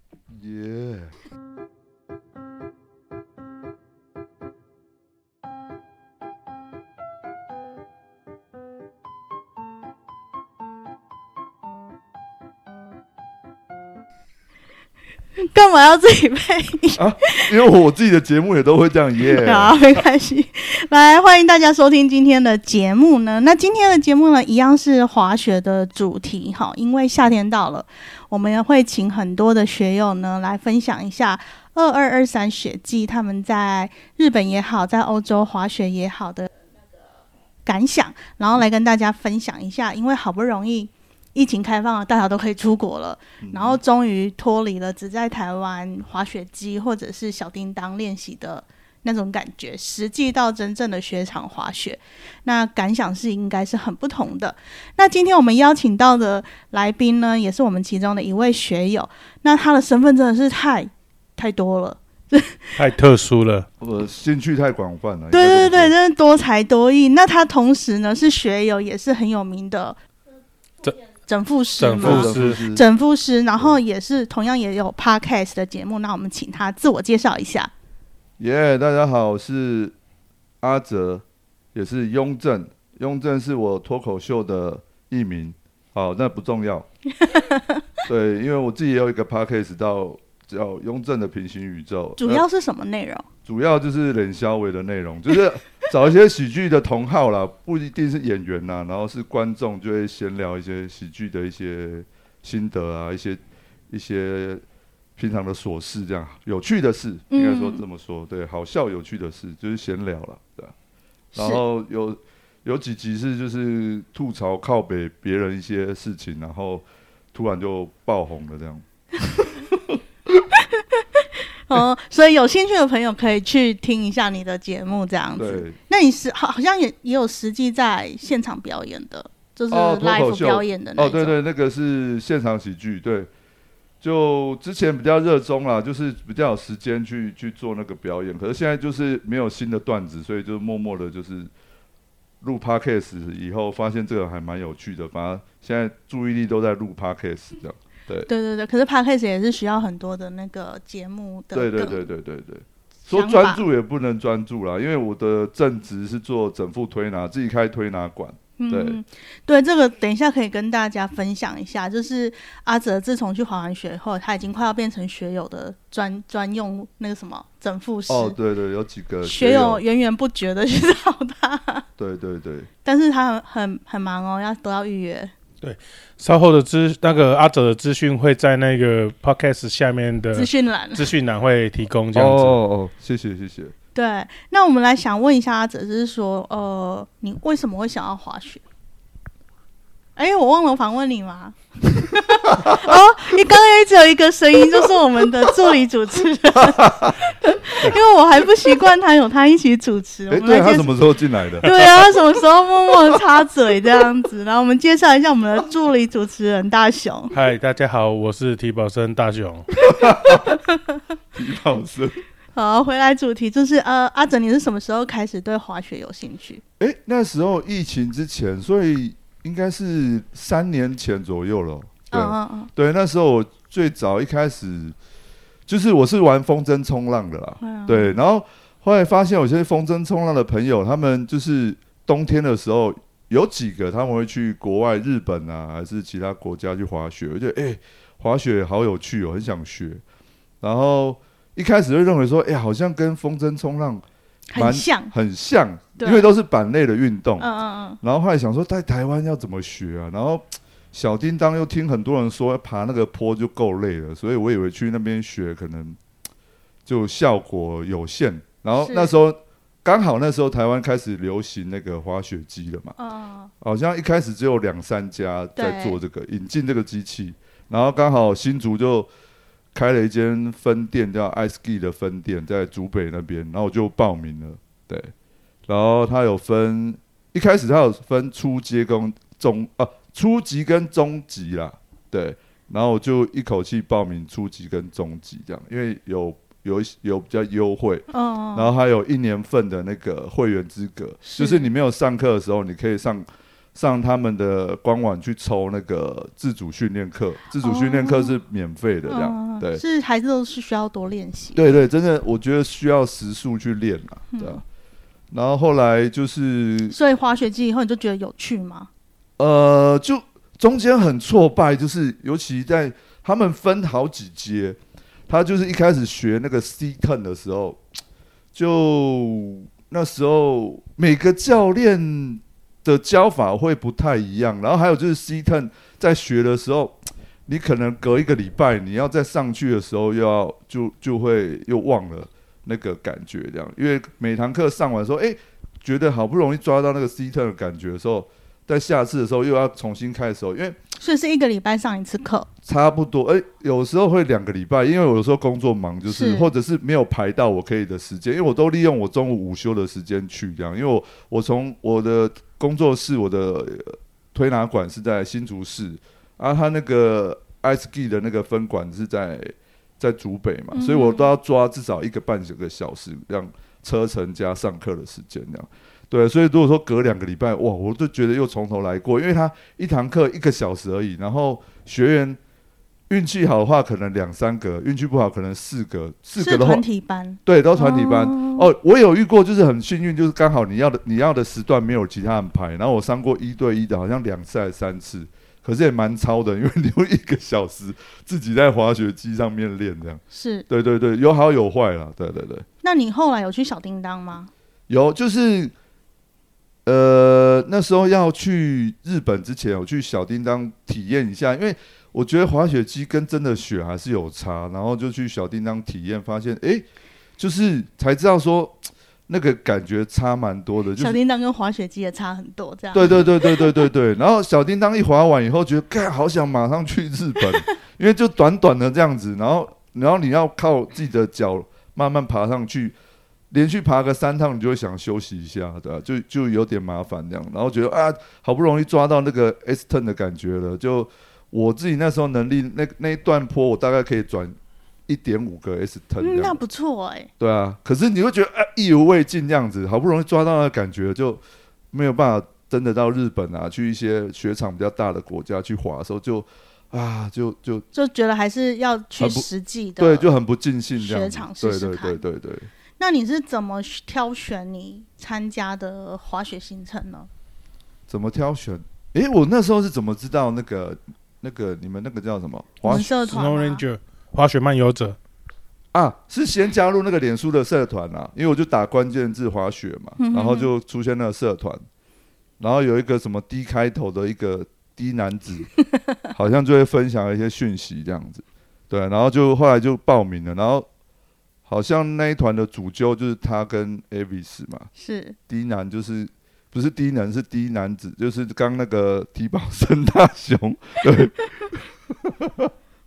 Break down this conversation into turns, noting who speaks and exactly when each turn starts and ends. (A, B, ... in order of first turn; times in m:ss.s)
0:00.3-0:01.1 A
0:15.4-0:17.5 B
0:17.0-0:19.8 A
0:19.4-0:36.5 B
0:37.6-1:02.8 B
0:43.4-0:43.8 A
1:02.8-1:03.7 C
1:03.8-1:05.9 A
1:05.3-1:10.0 B
1:11.2-1:17.7 B
1:11.8-1:12.6 C
1:12.0-1:12.8 A
1:18.4-1:19.9 A
1:20.6-1:26.9 A
1:27.2-1:27.8 B
1:28.1-1:32.4 A
1:32.2-1:33.2 B
1:33.4-1:43.4 A
1:43.9-1:44.6 A
1:45.2-1:50.7 A
1:47.3-1:47.8 B
1:51.3-1:51.6 B
1:51.3-2:00.0 A
2:00.5-2:11.4 B
2:05.4-2:05.8 A
2:09.7-2:13.3 A
2:14.0-2:21.5 A
2:22.4-2:28.3 A
2:28.2-2:32.1 B
2:31.5-2:39.0 A
2:33.1-2:33.6 B
2:38.6-2:48.4 B
2:48.1-2:49.8 A
2:49.2-2:51.9 B
2:52.0-2:52.7 A
2:52.8-2:55.3 B
2:55.6-3:02.6 C
3:00.3-3:01.1 B
3:02.1-3:03.7 A
3:03.9-3:08.6 B
3:10.2-3:20.9 B
3:12.5-3:13.0 A
3:16.6-3:17.3 A
3:20.3-3:21.7 A
3:21.6-3:27.3 B
3:27.3-3:29.7 C
3:29.8-3:30.6 A
3:30.2-3:31.0 B
3:31.3-3:32.2 A
3:32.5-3:36.6 B
3:36.8-3:44.9 A
3:42.1-3:42.7 B
3:45.7-4:00.0 A
3:47.6-3:48.2 B
4:00.6-4:04.0 A
4:04.5-4:05.1 B
4:04.6-4:07.5 A
4:06.0-4:06.3 B
4:07.4-4:08.0 B
4:08.0-4:16.0 A
4:16.8-4:22.9 A
4:18.8-4:19.1 B
4:23.0-4:23.5 B
4:23.6-4:29.1 A
4:25.6-4:26.0 B
4:29.7-4:35.1 A
4:35.7-4:59.8 A
4:48.1-4:48.7 B
4:51.2-4:51.7 B
4:57.6-4:58.4 B
4:59.0-5:01.6 B
5:01.6-5:04.6 A
5:04.3-5:04.6 B
5:05.3-5:07.0 A
5:06.9-5:08.9 B
5:09.4-5:17.8 A
5:18.5-5:40.8 A
5:41.0-5:42.5 B
5:42.6-6:12.4 A
5:46.1-5:46.5 B
6:00.7-6:01.3 B
6:13.1-6:16.8 A
6:16.4-6:18.7 B
6:17.4-6:32.6 A
6:30.3-6:30.6 B
6:32.8-6:34.5 B
6:34.9-6:35.7 A
6:36.8-6:46.8 A
6:47.4-6:51.2 A
6:51.0-6:53.8 B
6:52.9-7:02.9 A
7:03.5-7:14.5 A
7:15.1-7:16.6 A
7:16.2-7:17.3 B
7:17.4-7:27.8 A
7:27.9-7:30.3 B
7:29.2-7:32.7 A
7:31.0-7:32.2 B
7:33.0-7:37.3 B
7:38.1-7:43.3 A
7:42.8-7:43.8 B
7:43.3-7:45.2 C
7:45.9-7:51.8 A
7:50.2-7:50.7 B
7:52.6-7:55.7 A
7:56.3-8:00.8 A
8:01.6-8:04.9 A
8:05.0-8:05.4 B
8:05.5-8:12.7 A